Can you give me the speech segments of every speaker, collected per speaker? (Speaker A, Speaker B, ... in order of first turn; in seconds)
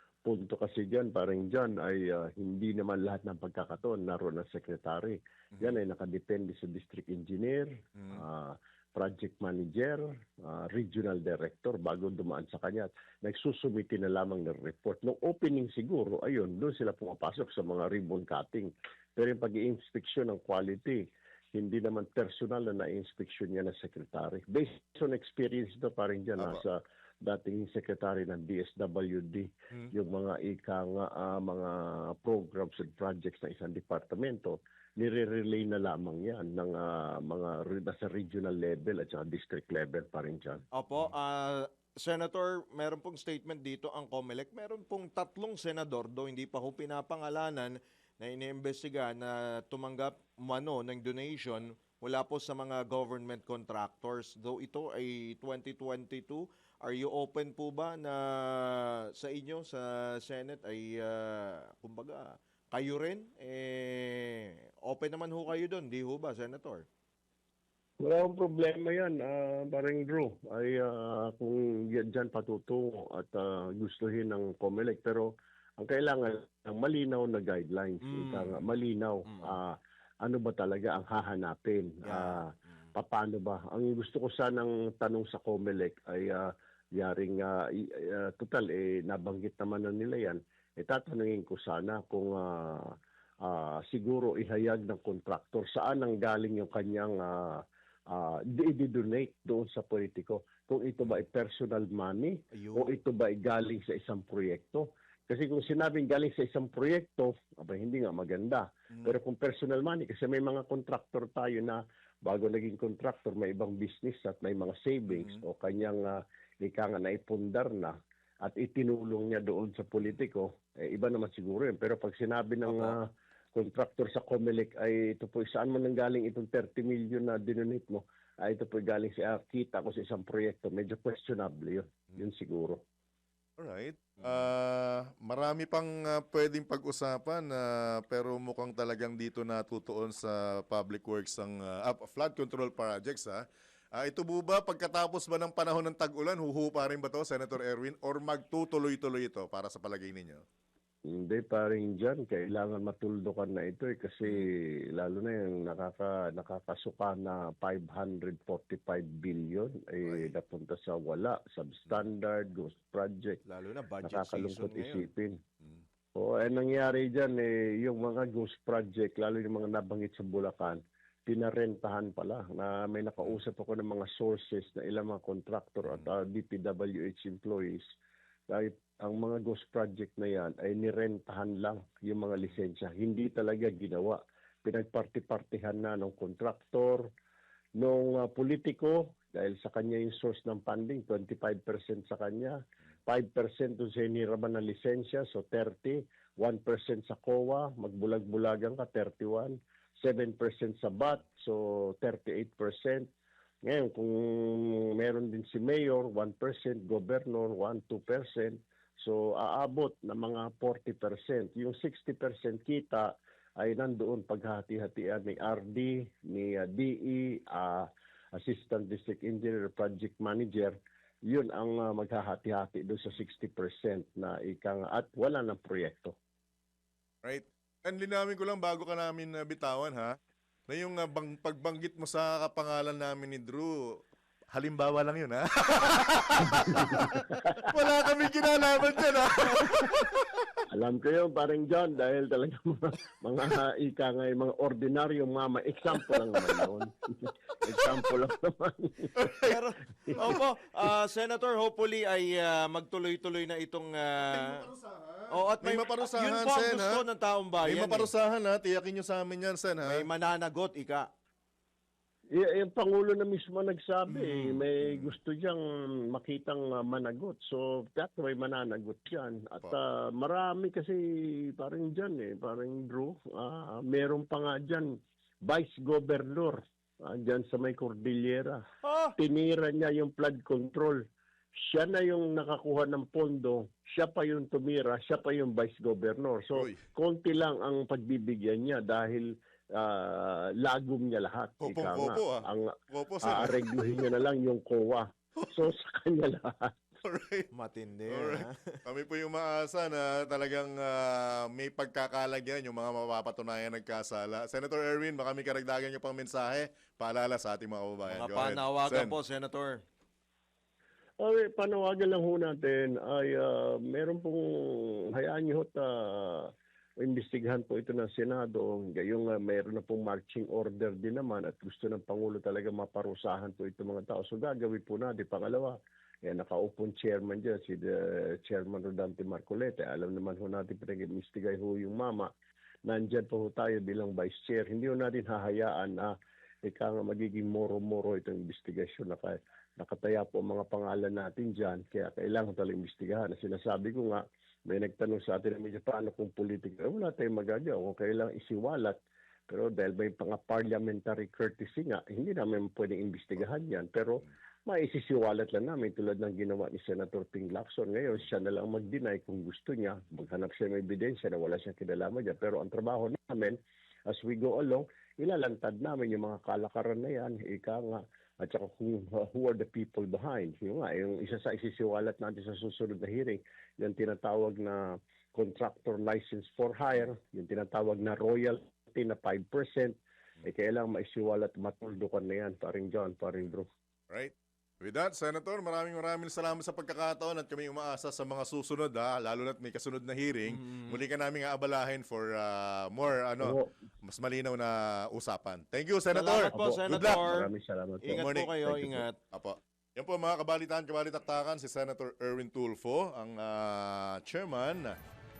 Speaker A: 0.2-40.6, 68.0-132.8, 151.1-163.4, 164.0-165.4, 166.1-177.8, 178.5-187.1, 187.8-203.1, 203.6-220.8, 221.3-226.1, 236.5-237.5, 240.7-249.3, 262.3-278.6, 279.2-281.0, 281.6-296.8, 311.2-332.3, 332.9-336.1, 336.6-348.9, 349.5-383.7, 393.4-393.7, 396.5-399.0
Speaker B: 8.0-8.2, 26.4-26.6, 115.1-115.4, 133.6-143.4, 143.9-150.4, 160.0-160.3, 227.2-230.1, 230.7-234.0, 234.5-240.4, 249.2-249.5, 254.3-257.0, 257.6-260.1, 264.8-265.1, 286.5-286.8, 291.6-294.0, 297.0-297.5, 298.1-309.2, 384.1-397.2, 398.2-398.5, 399.3-405.0
Speaker C: 40.7-66.8, 78.0-78.6, 79.3-79.6, 82.0-82.9, 102.5-102.9, 122.6-123.0, 163.4-165.1, 249.4-254.7, 255.3-258.1, 259.8-261.1, 264.1-264.7, 278.8-279.1, 297.5-298.8, 308.1-309.8, 390.5-391.0, 396.1-397.5, 398.0-399.1